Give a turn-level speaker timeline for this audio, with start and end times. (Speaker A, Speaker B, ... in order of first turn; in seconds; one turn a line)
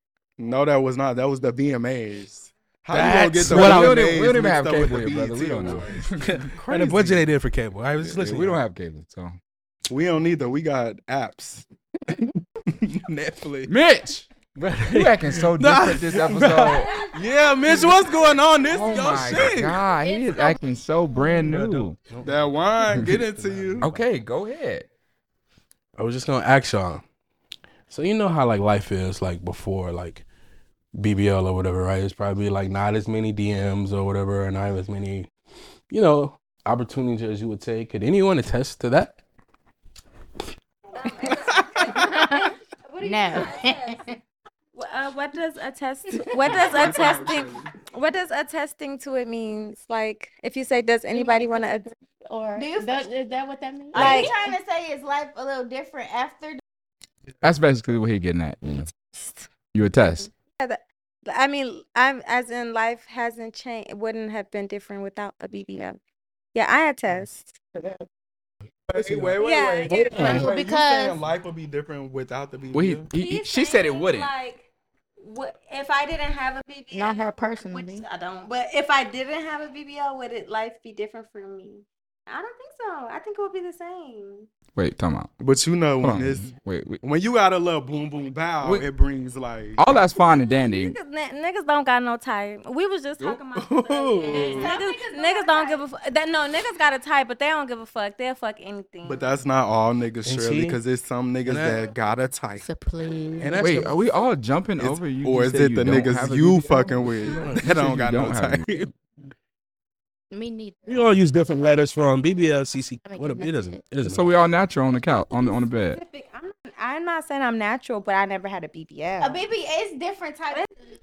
Speaker A: 0.4-7.2
Speaker B: 2.9-4.2
Speaker C: 3.4-6.5
Speaker B: 6.2-8.6
Speaker C: 8.1-9.4
Speaker A: 9.9-11.7
Speaker A: 12.7-13.7
Speaker C: 13.7-14.3
Speaker B: 14.5-16.9
Speaker C: 14.9-16.9
Speaker A: 17.1-19.8
Speaker C: 18.7-22.0
Speaker D: 20.1-20.6
Speaker B: 21.3-24.0
Speaker A: 22.2-23.9
Speaker C: 23.8-24.9
Speaker B: 25.9-27.0
Speaker B: 27.9-30.2
Speaker B: 30.9-35.3
Speaker B: 35.9-39.2
Speaker E: 40.9-44.1
Speaker D: 41.9-44.2
Speaker E: 44.7-51.9
Speaker A: 46.4-47.7
Speaker D: 51.1-54.3
Speaker F: 52.5-53.1
Speaker F: 53.9-56.6
Speaker E: 53.9-54.5
Speaker C: 57.4-58.9
Speaker E: 59.1-59.5
Speaker C: 59.7-60.3
Speaker E: 60.6-66.0
Speaker E: 66.5-67.5
Speaker A: 68.9-73.1
Speaker B: 68.9-69.3
Speaker E: 69.4-70.4
Speaker D: 69.9-71.2
Speaker C: 72.7-74.3
Speaker E: 73.1-74.7
Speaker E: 75.2-84.5
Speaker D: 76.9-78.1
Speaker C: 84.7-85.3
Speaker A: 85.4-89.8
Speaker C: 86.0-87.0
Speaker C: 88.6-88.9
Speaker C: 89.8-91.0
Speaker E: 90.4-99.2
Speaker A: 93.2-94.7
Speaker F: 94.3-95.8
Speaker A: 99.0-102.7
Speaker B: 100.2-100.8
Speaker B: 101.4-101.8
Speaker D: 102.6-103.7
Speaker B: 103.4-103.9
Speaker C: 103.6-108.9
Speaker A: 104.8-108.9
Speaker B: 107.3-107.6
Speaker D: 110.3-111.0
Speaker B: 110.8-114.2
Speaker D: 113.0-113.8
Speaker C: 114.0-116.0
Speaker E: 115.9-119.4
Speaker F: 119.2-120.7